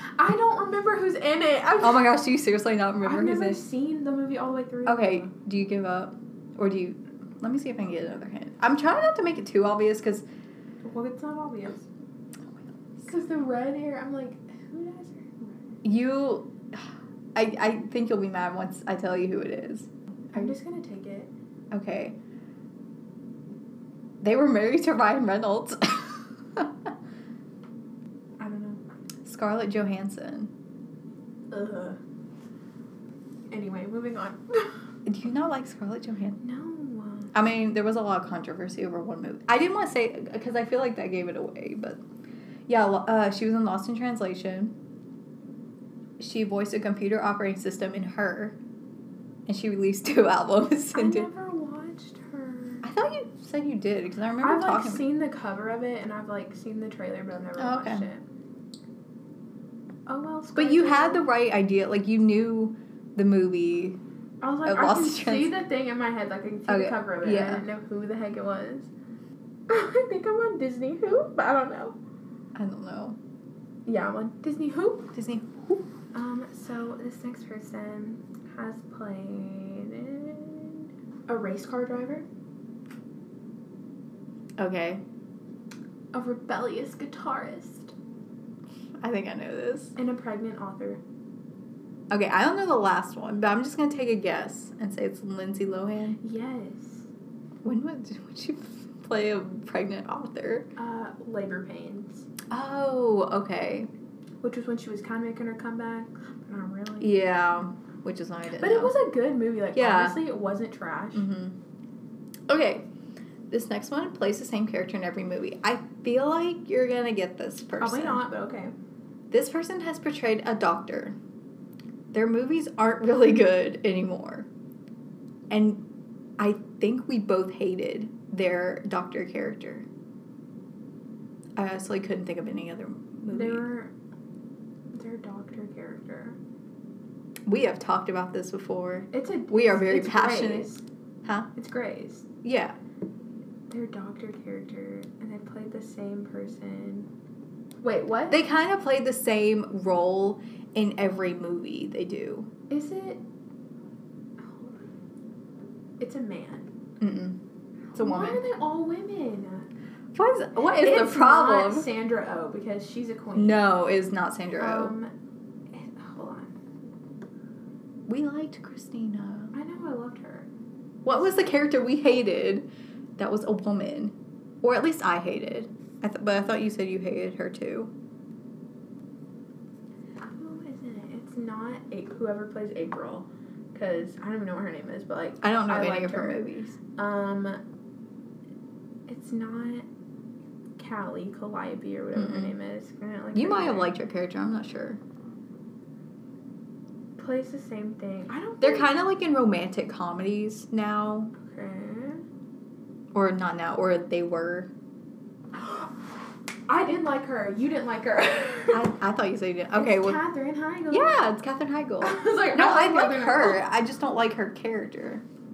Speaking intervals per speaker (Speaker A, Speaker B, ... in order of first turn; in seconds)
Speaker A: 0.2-2.1, 3.0-5.3, 10.8-11.9, 13.1-15.6, 20.3-21.3, 28.4-28.8, 31.5-32.0, 33.5-34.7, 36.4-37.4, 50.9-52.9, 54.4-58.2, 60.1-61.2, 64.4-68.9, 69.7-72.0, 73.9-75.1, 76.1-82.3, 86.1-87.9, 90.0-91.0, 96.2-97.1, 100.8-102.3, 104.4-107.1, 108.6-111.3, 117.8-118.7, 133.3-133.9, 134.9-136.4, 139.1-140.8, 141.6-142.3, 143.7-147.1, 147.8-148.4, 152.7-153.2, 154.4-154.8, 156.0-156.7, 157.9-159.7, 160.6-163.6, 164.6-165.1, 165.7-166.5, 169.5-170.5, 180.2-187.6, 189.1-189.9, 190.8-193.9, 197.2-198.9, 201.4-202.2, 205.6-205.8, 206.7-208.9, 209.7-211.2, 212.0-213.6
Speaker B: 1.8-3.6, 4.9-10.2, 15.8-20.5, 21.7-22.2, 24.2-26.9, 29.2-30.5, 35.1-36.4, 37.3-42.0, 42.7-44.7, 46.2-48.6, 49.5-51.3, 52.8-55.0, 57.6-58.1, 60.6-64.0, 64.7-65.5, 66.7-67.7, 72.5-73.2, 75.1-75.9, 84.6-85.0, 89.0-90.0, 92.1-96.2, 97.6-100.7, 102.5-103.9, 107.0-109.0, 109.8-110.2, 111.1-111.6, 112.5-112.9, 113.5-118.2, 119.3-121.2, 122.1-124.5, 125.5-125.8, 126.4-129.9, 131.6-133.7, 137.5-140.7, 141.2-141.5, 142.4-142.8, 148.3-152.5, 157.0-157.4, 157.9-158.4, 160.1-161.9, 163.4-164.9, 168.1-169.5, 171.1-177.9, 185.4-186.8, 192.1-192.6, 193.3-195.0, 198.6-201.3, 203.1-204.7, 208.7-210.2, 210.9-215.2